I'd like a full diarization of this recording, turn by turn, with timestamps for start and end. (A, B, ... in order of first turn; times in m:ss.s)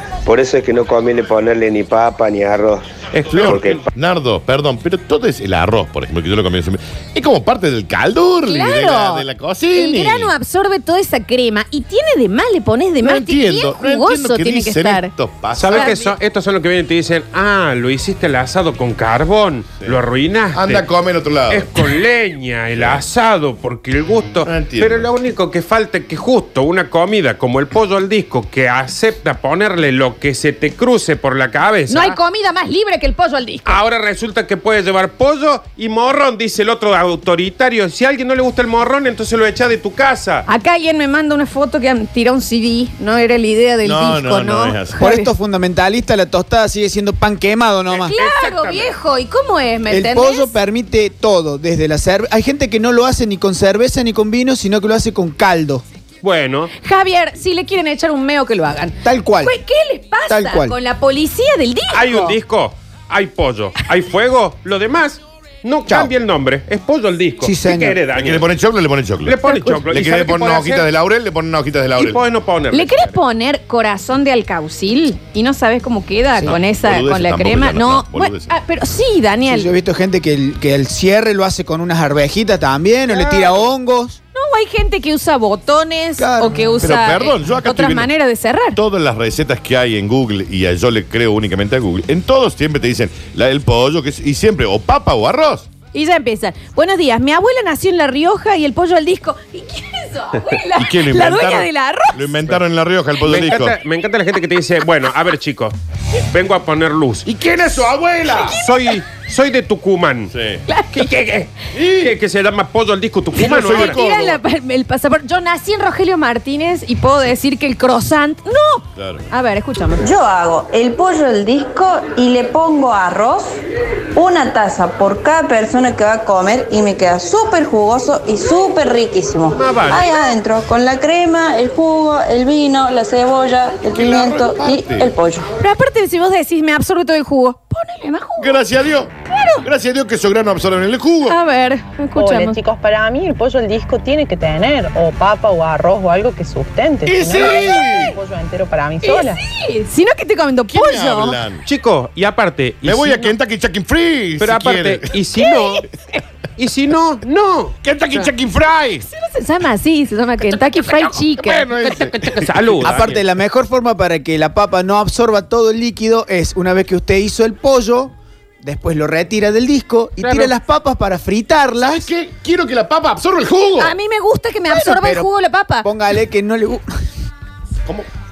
0:00.2-0:03.9 A
0:03.1-0:03.8 B
0:03.3-0:10.3 C
0:08.4-0:15.1 D
0:13.0-0:16.0 C
0:15.6-0:20.9 B
0:15.7-0:16.2 D
0:20.5-0:21.7 C
0:21.5-0:32.2 B
0:22.8-0:23.0 C
0:24.4-0:25.1 C
0:31.9-0:33.8 D
0:33.7-0:40.5 B
0:40.5-0:45.3 D
0:43.8-0:45.0 C
0:45.0-0:48.2 E
0:47.9-0:48.9 B
0:48.1-0:50.6 D
0:49.9-0:55.8 E
0:56.2-0:56.7 B
0:56.8-1:02.4 D
0:59.0-0:59.6 E
1:00.3-1:00.8 E
1:01.9-1:08.5 B
1:07.4-1:08.1 E
1:08.2-1:09.4 C
1:09.2-1:10.9 B
1:09.4-1:09.8 D
1:09.9-1:12.2 C
1:12.0-1:13.2 B
1:12.7-1:19.7 D
1:16.4-1:18.5 C
1:19.4-1:24.2 E
1:24.4-1:28.8 D
1:26.2-1:26.7 E
1:26.8-1:28.1 C
1:28.8-1:35.7 C
1:35.9-1:42.4 D
1:40.8-1:43.8 C
1:43.2-1:45.8 B
1:43.3-1:43.6 D
1:46.3-1:47.3 B
1:47.3-1:48.5 C
1:48.4-1:50.3 B
1:50.4-1:50.6 C
1:50.7-1:51.1 D
1:50.9-1:54.3 B
1:51.8-1:52.1 C
1:53.4-2:00.1 D
1:53.4-1:54.3 C
1:59.0-1:59.3 C
2:00.0-2:03.6 F
2:04.2-2:15.5 F
2:09.5-2:10.2 B
2:13.9-2:15.1 C
2:15.6-2:18.6 D
2:18.4-2:19.1 C
2:19.3-2:19.6 D
2:19.6-2:21.4 C
2:21.3-2:22.6 D
2:22.2-2:29.4 G
2:27.0-2:28.2 C
2:29.0-2:31.4 D
2:30.7-2:31.6 C
2:31.6-2:33.4 B
2:32.8-2:35.1 C
2:34.4-2:35.8 B
2:35.4-2:36.2 D
2:36.6-2:38.3 B
2:37.8-2:39.1 C
2:39.1-2:42.1 D
2:41.4-2:42.9 C
2:41.8-2:43.2 B
2:42.8-2:52.1 E
2:50.2-2:50.5 B
2:51.9-2:54.0 C
2:53.8-2:55.9 D
2:54.7-2:55.3 E
2:55.8-2:56.9 E